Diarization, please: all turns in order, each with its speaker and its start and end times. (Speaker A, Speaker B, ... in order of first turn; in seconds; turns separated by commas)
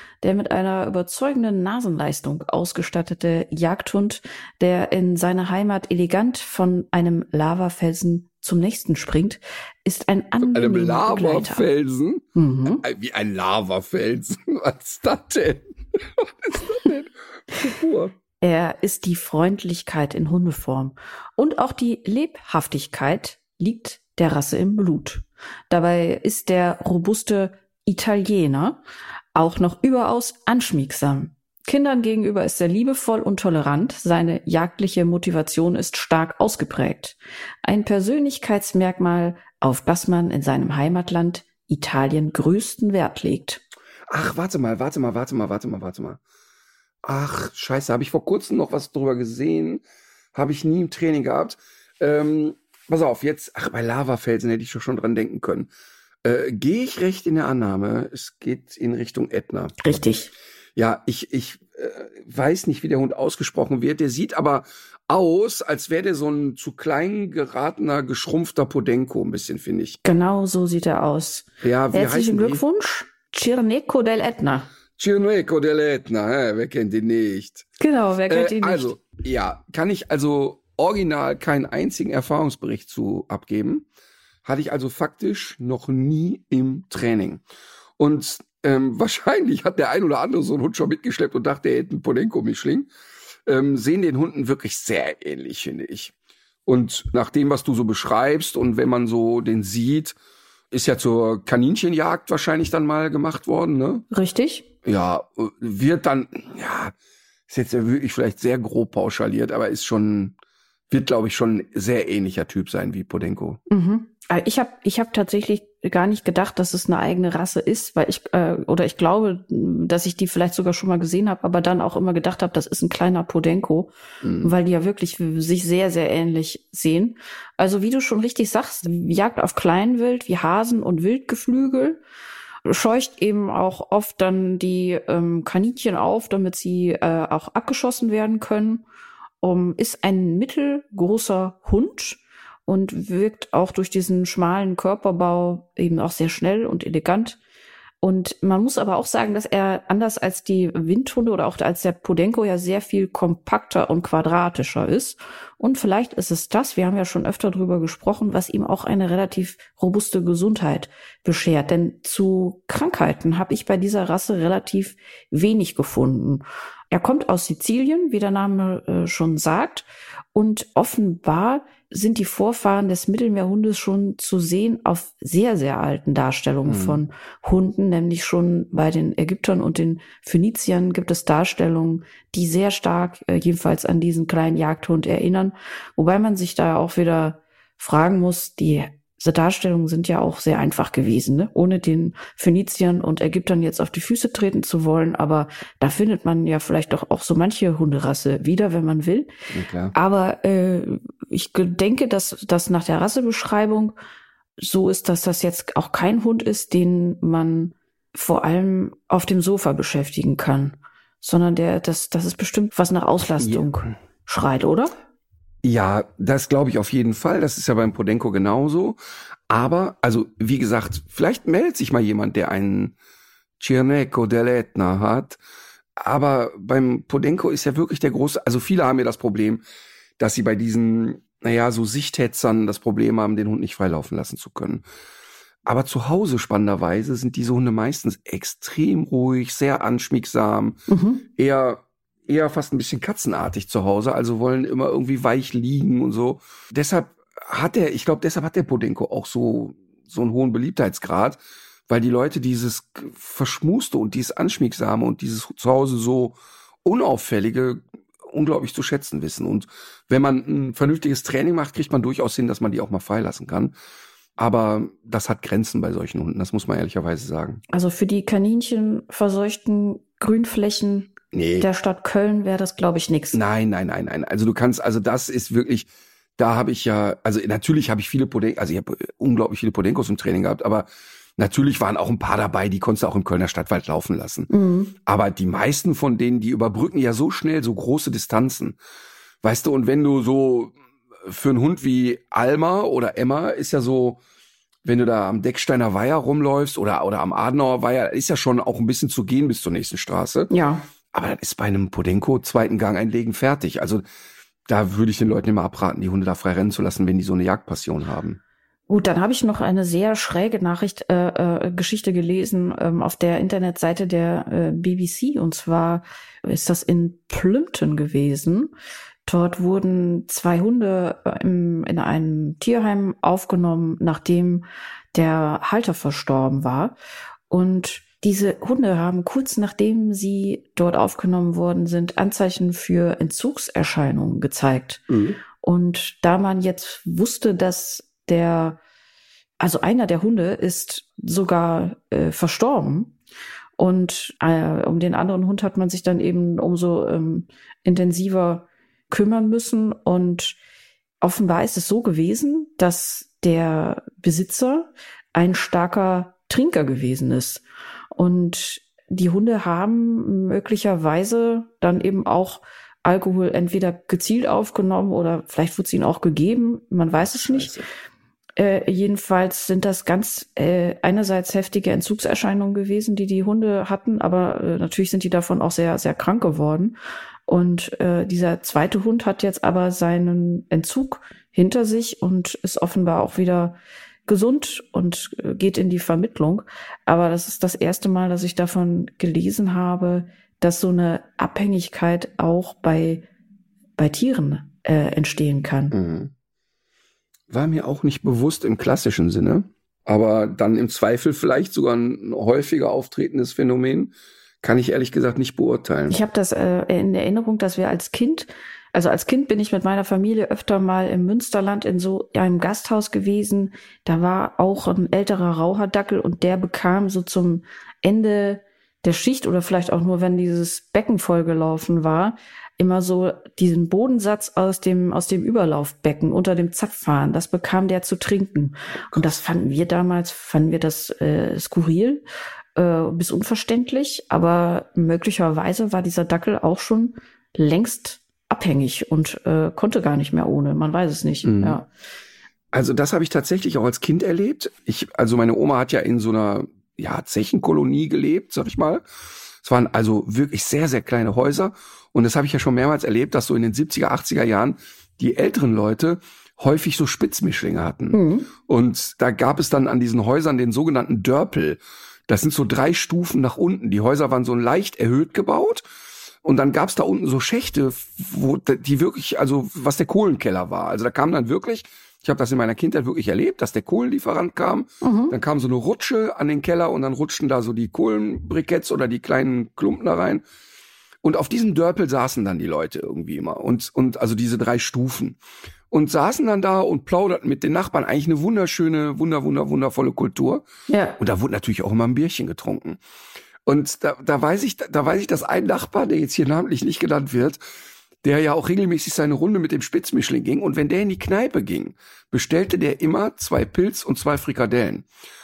Speaker A: 0.2-11.7, Speaker B: 10.4-18.1, Speaker A: 12.3-12.8, Speaker A: 18.4-28.8, Speaker A: 29.4-43.6, Speaker B: 44.1-46.2, Speaker B: 47.0-49.8, Speaker B: 50.3-55.7, Speaker B: 56.2-60.0, Speaker A: 59.8-60.3, Speaker B: 60.8-70.0, Speaker A: 70.0-74.7, Speaker B: 71.6-72.6, Speaker B: 75.0-77.7, Speaker A: 77.8-78.9, Speaker B: 78.3-83.9, Speaker B: 84.5-87.4, Speaker B: 88.0-92.9, Speaker B: 93.5-96.1, Speaker B: 96.7-100.2, Speaker B: 100.7-104.0, Speaker A: 104.1-104.7, Speaker B: 104.8-106.9, Speaker B: 107.5-110.4, Speaker B: 110.9-113.6, Speaker A: 113.7-123.9, Speaker B: 124.2-124.5, Speaker A: 124.4-132.0, Speaker A: 132.7-138.8, Speaker A: 139.4-147.4, Speaker A: 148.0-199.3, Speaker B: 176.7-177.0, Speaker B: 199.5-199.9, Speaker A: 199.9-203.9, Speaker A: 204.6-214.9, Speaker B: 215.6-222.9, Speaker B: 223.6-225.4, Speaker B: 226.0-229.6, Speaker B: 230.2-234.8, Speaker B: 235.7-240.8, Speaker A: 240.9-241.2, Speaker B: 241.4-263.7, Speaker B: 264.4-267.6, Speaker A: 267.7-273.4, Speaker B: 271.3-271.7, Speaker B: 273.3-280.9, Speaker B: 281.4-284.5, Speaker A: 284.5-284.9, Speaker B: 285.1-288.8, Speaker B: 289.4-294.2, Speaker B: 294.9-300.5, Speaker A: 300.5-300.9, Speaker B: 301.1-304.0, Speaker B: 304.7-308.4, Speaker A: 308.9-318.7, Speaker A: 319.3-326.9, Speaker A: 327.5-338.8, Speaker B: 335.1-335.4, Speaker A: 339.6-343.1, Speaker A: 343.8-350.6, Speaker A: 351.2-357.6, Speaker A: 358.1-367.7, Speaker B: 367.2-367.9, Speaker A: 368.6-377.0, Speaker A: 377.5-393.3, Speaker A: 394.0-395.9, Speaker B: 395.9-396.3, Speaker B: 397.5-406.2, Speaker A: 406.1-432.2, Speaker A: 432.8-441.9, Speaker B: 441.4-441.8, Speaker B: 442.7-449.1, Speaker B: 449.6-465.9, Speaker A: 458.1-458.5, Speaker B: 466.4-480.4, Speaker A: 475.0-475.4, Speaker B: 481.2-485.4, Speaker B: 485.9-490.7, Speaker A: 490.9-491.2, Speaker B: 491.2-493.0, Speaker B: 493.7-497.6, Speaker B: 498.2-505.1